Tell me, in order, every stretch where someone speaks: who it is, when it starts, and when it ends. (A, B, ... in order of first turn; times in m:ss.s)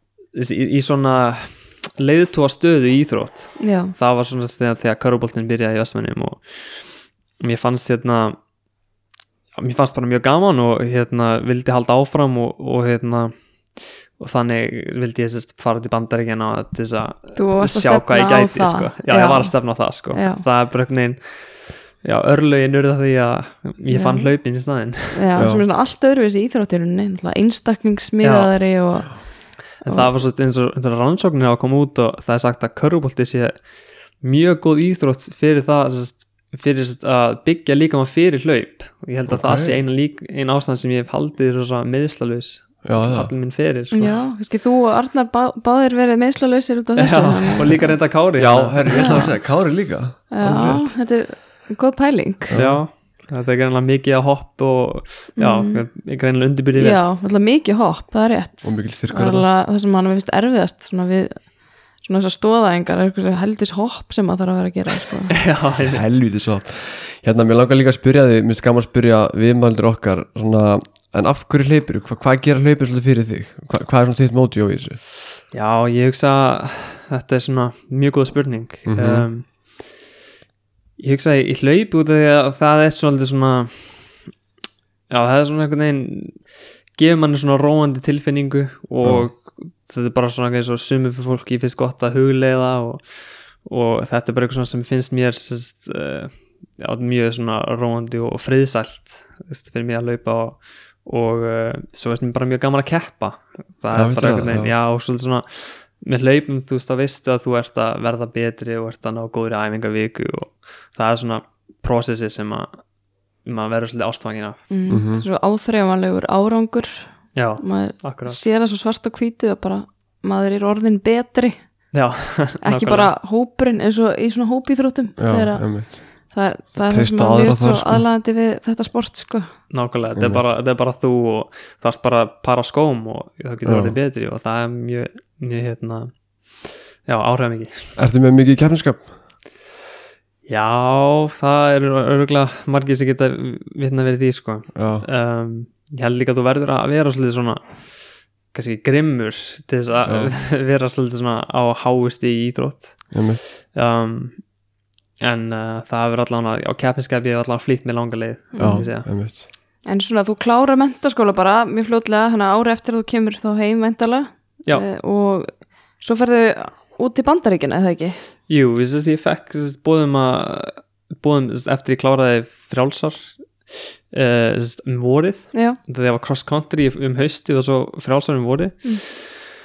0:00.3-0:08.4 A
0:03.6-0:03.9 B
0:09.6-0:25.2 A
0:17.4-0:20.4 B
0:23.9-0:24.4 B
0:25.1-0:30.1 B
0:25.4-0:25.6 C
0:28.2-0:29.1 A
0:29.8-0:33.6 A
0:34.2-0:44.2 A
0:39.3-0:39.8 C
0:42.8-0:43.3 C
0:43.9-0:48.0 B
0:47.0-0:49.3 A
0:48.4-0:50.9 C
0:48.9-0:49.3 B
0:50.3-0:52.6 B
0:52.5-0:52.8 C
0:52.5-0:57.0 A
0:55.4-0:55.9 B
0:56.8-1:05.4 B
0:58.6-0:59.5 C
1:05.3-1:06.0 A
1:05.8-1:15.0 C
1:15.5-1:19.8 A
1:18.9-1:19.3 C
1:21.0-1:24.2 A
1:25.1-1:52.8 A
1:29.0-1:29.3 C
1:43.9-1:44.7 C
1:53.4-1:54.6 A
1:54.7-2:01.9 B
1:54.9-1:55.2 C
1:57.3-1:58.4 A
2:01.9-2:03.1 A
2:02.6-2:09.5 B
2:05.2-2:06.1 C
2:06.9-2:08.1 C
2:09.7-2:17.8 A
2:10.2-2:10.5 C
2:13.6-2:14.0 C
2:18.0-2:19.1 C
2:20.5-2:34.5 A
2:24.8-2:25.1 C
2:30.0-2:30.4 C
2:33.1-2:33.4 C
2:35.2-2:39.1 A
2:38.5-2:39.2 B
2:38.6-2:39.5 C
2:39.8-2:48.2 B
2:48.5-2:59.5 A
2:55.5-2:55.8 B